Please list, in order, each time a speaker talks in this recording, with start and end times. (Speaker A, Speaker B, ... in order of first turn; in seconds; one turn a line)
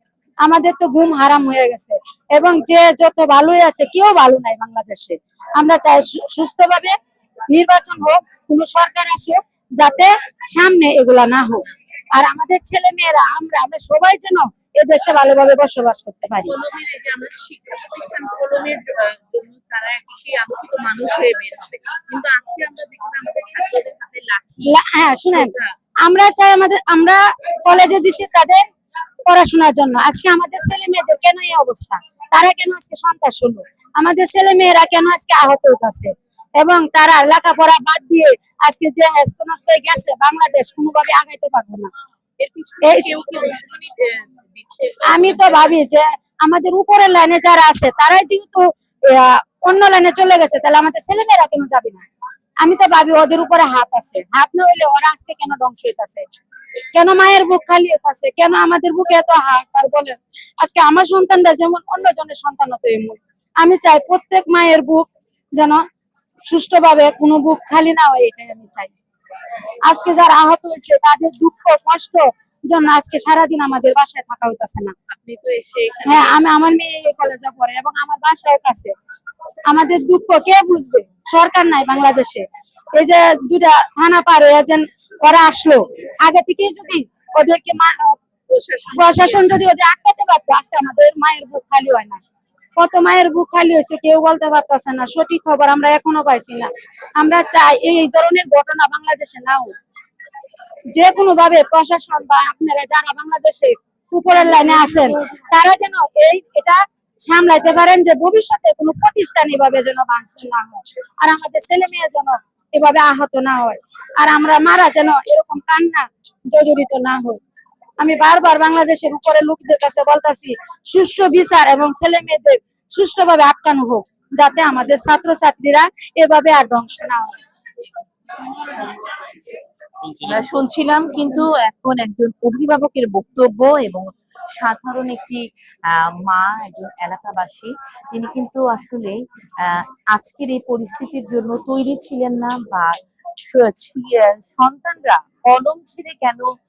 Speaker A: 0.4-6.9
Speaker A: 7.5-16.5
Speaker B: 16.4-24.8
Speaker A: 24.6-28.7
Speaker B: 25.3-25.7
Speaker A: 29.2-41.9
Speaker B: 42.4-45.8
Speaker A: 42.8-43.5
Speaker A: 45.0-52.0
Speaker A: 52.6-56.2
Speaker A: 56.9-65.8
Speaker A: 66.5-68.9
Speaker A: 69.8-74.9
Speaker B: 75.1-76.4
Speaker A: 76.0-78.9
Speaker A: 79.7-88.2
Speaker B: 88.5-89.5
Speaker A: 88.9-92.2
Speaker A: 92.8-99.7
Speaker A: 100.9-117.4
Speaker A: 118.0-127.3
Speaker B: 130.2-142.9
Speaker B: 143.5-146.5